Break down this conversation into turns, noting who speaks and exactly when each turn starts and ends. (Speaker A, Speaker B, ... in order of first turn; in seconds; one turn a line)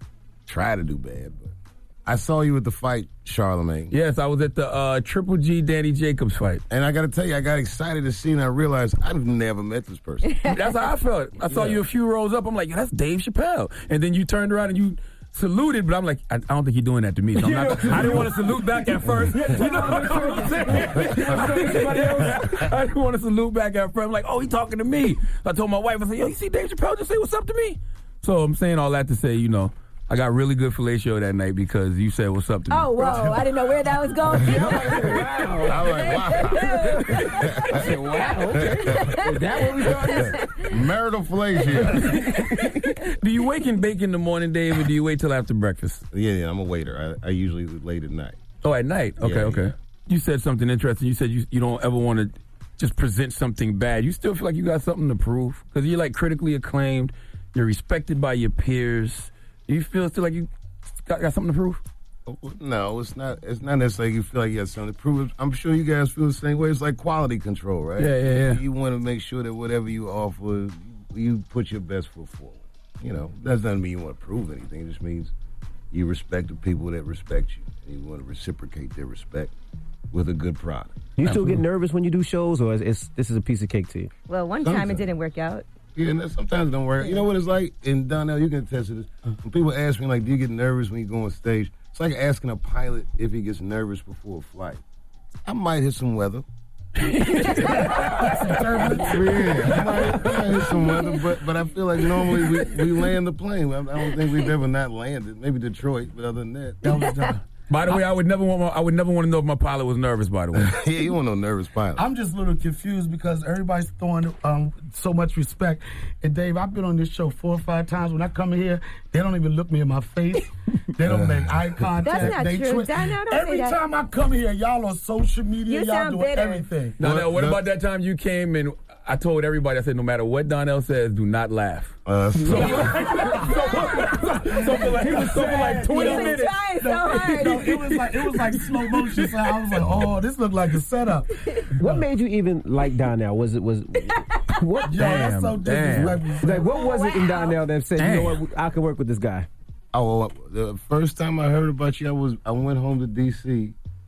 Speaker A: 0.5-1.5
Speaker A: 2.1-3.9
Speaker B: 3.9-6.6
Speaker A: 6.7-10.4
Speaker C: 10.3-10.6
Speaker B: 10.4-33.5
Speaker A: 11.5-11.8
Speaker D: 17.4-22.6
Speaker C: 32.7-37.4
Speaker D: 34.4-35.8
Speaker B: 34.4-35.9
Speaker A: 35.7-36.6
Speaker B: 37.4-38.7
Speaker D: 37.7-40.4
Speaker C: 38.9-40.7
Speaker A: 40.7-42.1
Speaker B: 41.8-46.0
Speaker D: 42.4-42.7
Speaker A: 46.1-48.4
Speaker B: 48.6-60.5
Speaker A: 49.2-49.7
Speaker B: 61.0-61.8
Speaker A: 62.3-75.3
Speaker B: 68.0-68.6
Speaker A: 75.9-79.5
Speaker A: 80.1-81.1
Speaker D: 81.2-84.1
Speaker B: 81.2-81.6
Speaker C: 84.3-85.7
Speaker A: 84.7-85.0
Speaker A: 86.0-94.8
Speaker A: 95.5-96.5
Speaker B: 97.0-100.7
Speaker E: 98.2-99.1
Speaker A: 99.0-106.9
Speaker B: 102.3-102.5
Speaker E: 106.8-107.4
Speaker B: 107.7-110.8
Speaker A: 110.6-112.0
Speaker E: 112.0-127.0
Speaker A: 121.0-122.3
Speaker C: 122.0-123.8
Speaker C: 125.7-126.7
Speaker B: 127.0-139.4
Speaker A: 127.0-127.6
Speaker A: 132.1-133.0
Speaker E: 132.5-142.1
Speaker C: 133.5-133.8
Speaker C: 135.8-137.7
Speaker D: 141.8-145.1
Speaker C: 144.1-144.6
Speaker E: 144.9-146.7
Speaker B: 145.0-146.3
Speaker D: 146.4-149.5
Speaker C: 146.5-147.6
Speaker B: 148.0-148.4
Speaker A: 149.9-153.8